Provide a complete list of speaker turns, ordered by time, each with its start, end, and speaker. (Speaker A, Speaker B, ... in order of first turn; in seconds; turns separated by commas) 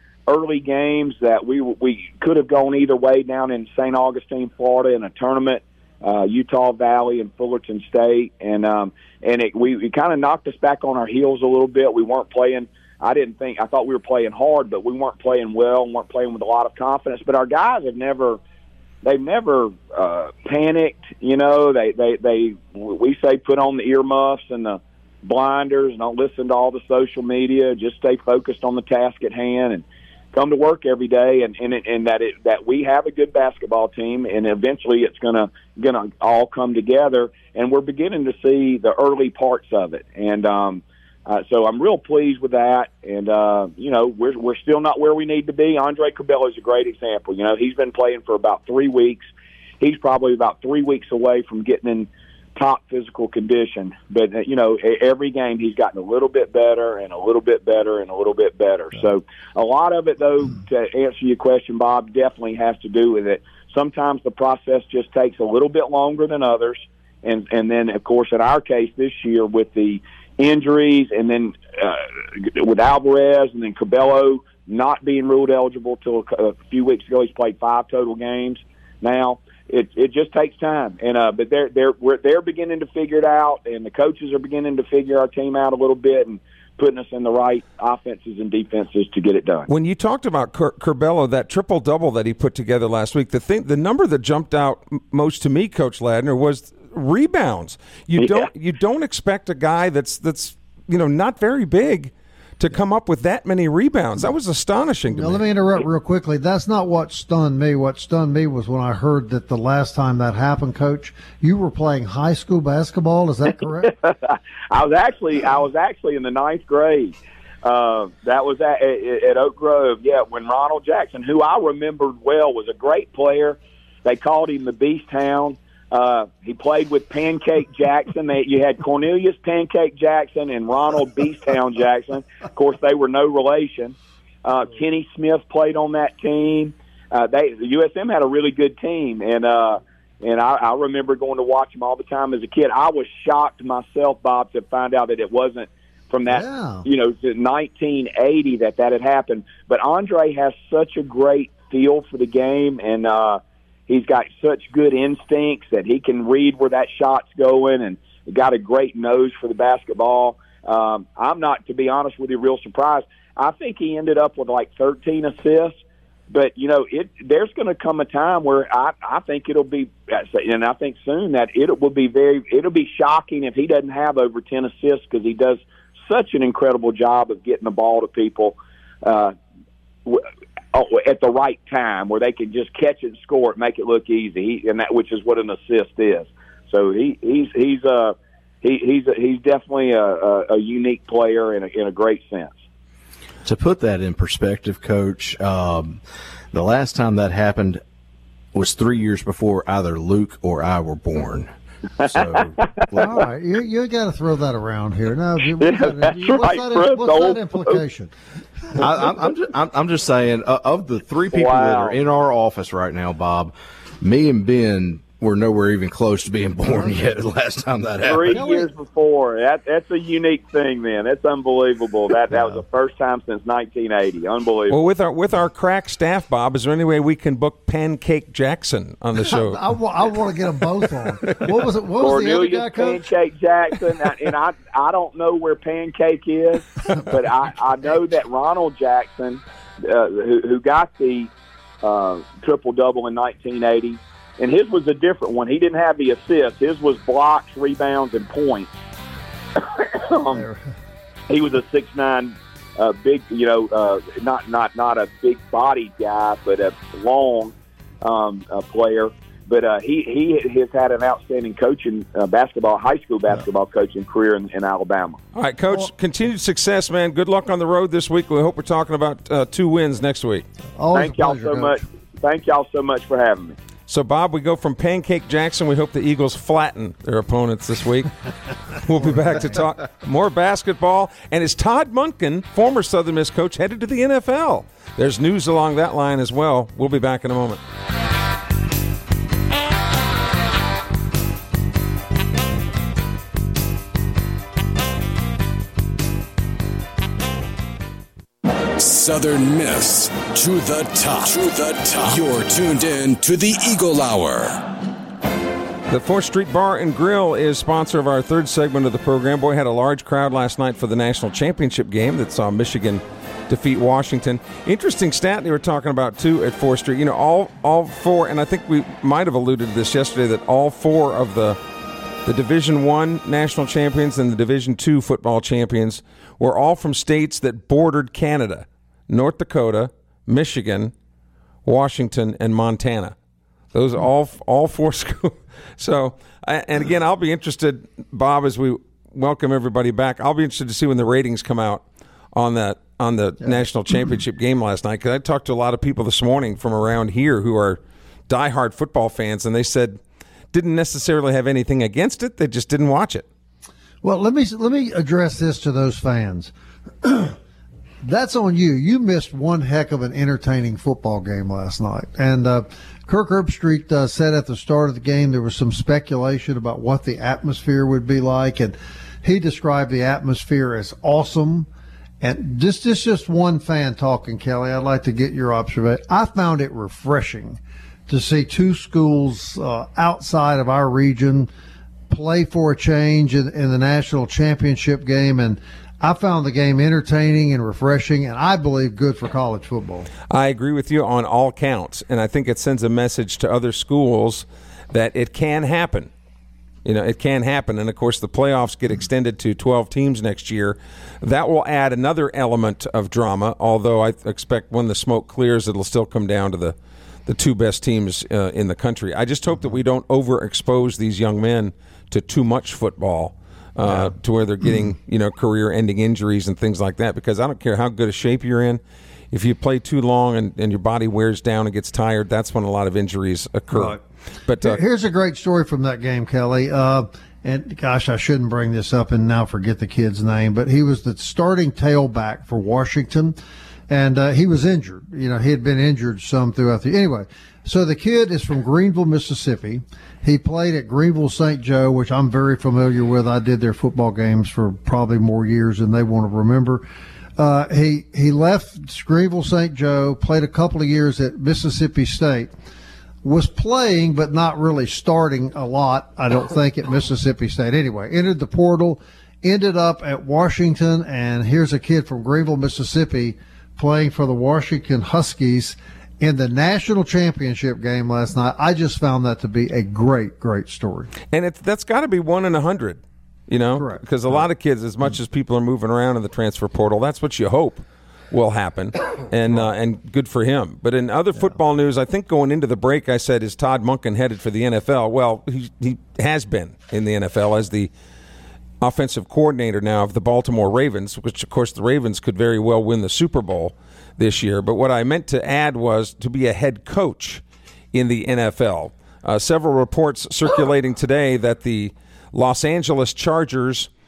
Speaker A: 0.3-18.4, Speaker A: 19.0-49.2, Speaker A: 49.8-89.7, Speaker B: 89.7-105.4, Speaker A: 98.2-98.5, Speaker C: 105.1-113.9, Speaker A: 113.8-165.8, Speaker C: 146.3-146.8, Speaker A: 166.3-179.3, Speaker A: 180.1-192.6, Speaker D: 193.4-196.0, Speaker D: 196.5-197.8, Speaker D: 198.5-201.5, Speaker D: 202.0-203.2, Speaker C: 202.9-208.1, Speaker A: 205.6-207.8, Speaker D: 208.8-218.4, Speaker A: 211.3-212.0, Speaker C: 216.7-217.0, Speaker A: 218.0-224.8, Speaker C: 218.3-218.7, Speaker B: 224.7-229.6, Speaker C: 229.2-233.0, Speaker A: 232.0-241.3, Speaker A: 241.8-248.7, Speaker A: 249.6-250.4, Speaker C: 250.3-250.7, Speaker A: 251.3-265.2, Speaker B: 265.3-270.4, Speaker C: 270.8-271.8, Speaker A: 270.9-273.6, Speaker B: 273.9-278.1, Speaker B: 278.7-287.6, Speaker E: 298.8-304.6, Speaker B: 305.9-321.6, Speaker B: 322.3-330.9, Speaker B: 331.7-333.2, Speaker B: 333.7-341.8, Speaker B: 342.4-350.0, Speaker B: 350.5-353.3, Speaker C: 354.0-357.4, Speaker C: 358.0-371.7, Speaker C: 372.2-381.5, Speaker C: 382.1-390.1, Speaker B: 390.3-396.1, Speaker B: 396.9-406.8, Speaker B: 407.3-418.8, Speaker B: 419.3-424.8, Speaker C: 423.7-424.0, Speaker C: 424.6-433.4, Speaker C: 433.9-446.9, Speaker C: 447.4-452.5, Speaker C: 453.2-471.1, Speaker B: 471.3-487.9, Speaker C: 473.8-474.5, Speaker B: 488.8-497.4, Speaker B: 497.9-503.9